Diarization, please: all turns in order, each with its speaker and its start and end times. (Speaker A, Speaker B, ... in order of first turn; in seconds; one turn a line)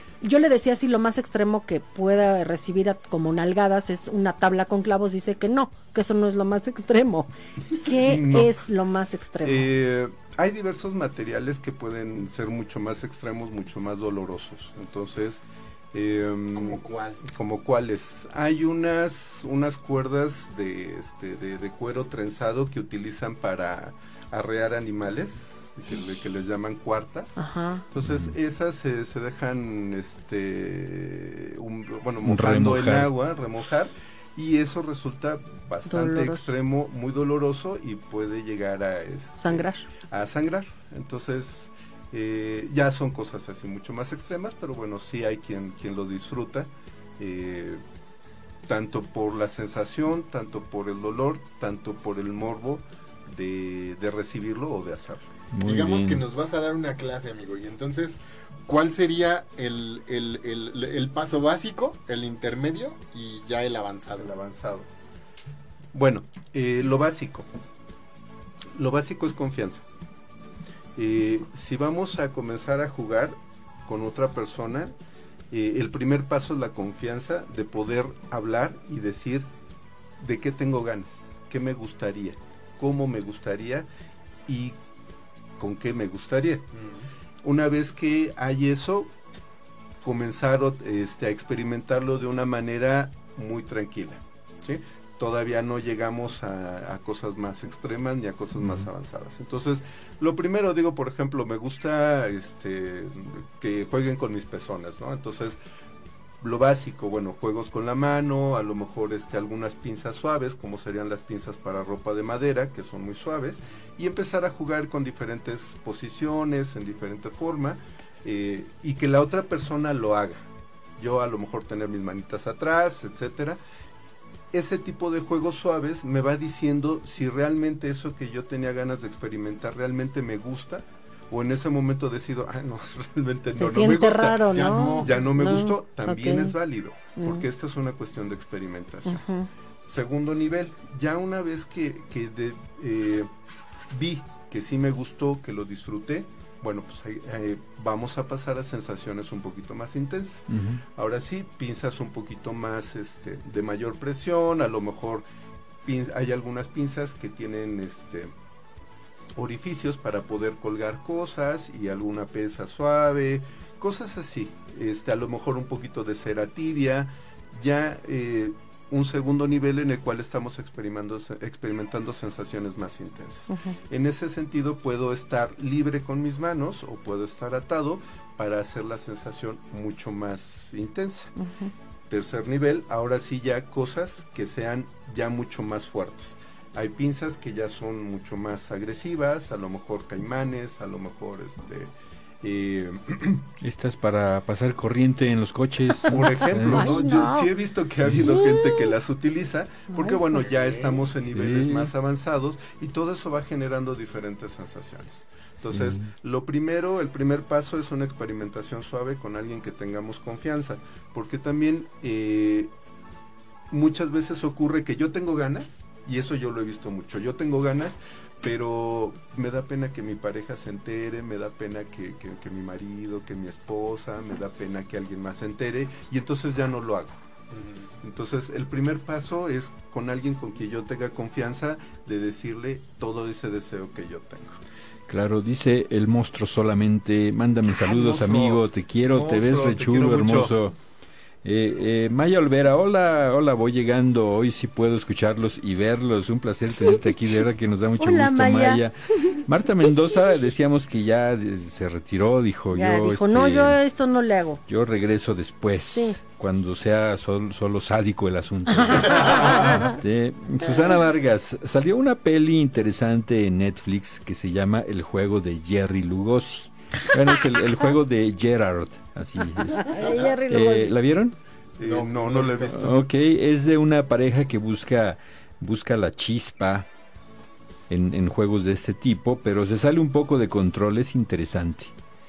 Speaker A: 0.2-9.7
Speaker B: 7.8-8.6
Speaker B: 9.4-47.8
Speaker C: 16.5-17.2
Speaker A: 27.4-27.8
Speaker D: 28.0-28.3
Speaker D: 32.2-33.1
Speaker A: 35.9-36.5
Speaker A: 39.4-39.9
Speaker B: 48.6-55.2
Speaker D: 55.5-56.2
Speaker C: 55.6-64.3
Speaker B: 64.2-64.9
Speaker B: 65.9-67.5
Speaker B: 68.7-69.8
Speaker B: 71.0-74.9
Speaker B: 75.5-79.5
Speaker B: 80.2-83.9
Speaker B: 84.5-84.8
Speaker B: 85.6-86.7
Speaker C: 86.8-87.1
Speaker B: 87.4-89.1
Speaker B: 90.0-105.6
Speaker D: 98.6-98.9
Speaker B: 106.4-120.4
Speaker B: 121.0-123.6
Speaker B: 124.5-139.2
Speaker A: 133.5-136.6
Speaker C: 134.5-135.2
Speaker A: 137.2-137.4
Speaker A: 139.1-139.5
Speaker B: 139.8-143.3
Speaker B: 143.9-155.3
Speaker D: 150.5-150.8
Speaker B: 155.8-158.3
Speaker B: 159.3-181.3
Speaker A: 173.5-173.8
Speaker A: 181.4-181.7
Speaker B: 182.1-193.5
Speaker D: 193.6-196.9
Speaker B: 196.1-212.7
Speaker A: 196.6-197.5
Speaker D: 198.0-198.4
Speaker A: 198.2-198.9
Speaker A: 199.9-200.4
Speaker D: 201.3-201.9
Speaker D: 205.6-206.1
Speaker B: 213.7-227.2
Speaker C: 227.5-227.9
Speaker B: 228.0-234.6
Speaker D: 235.1-240.7
Speaker B: 237.9-240.5
Speaker D: 241.4-253.8
Speaker A: 246.7-247.0
Speaker A: 248.0-249.4
Speaker A: 252.7-254.6
Speaker D: 254.7-271.4
Speaker A: 255.9-256.2
Speaker A: 258.8-260.0
Speaker B: 259.3-259.6
Speaker A: 269.7-270.9
Speaker C: 269.9-270.3
Speaker B: 271.8-273.1
Speaker C: 271.8-272.9
Speaker D: 272.7-276.9
Speaker D: 277.9-281.9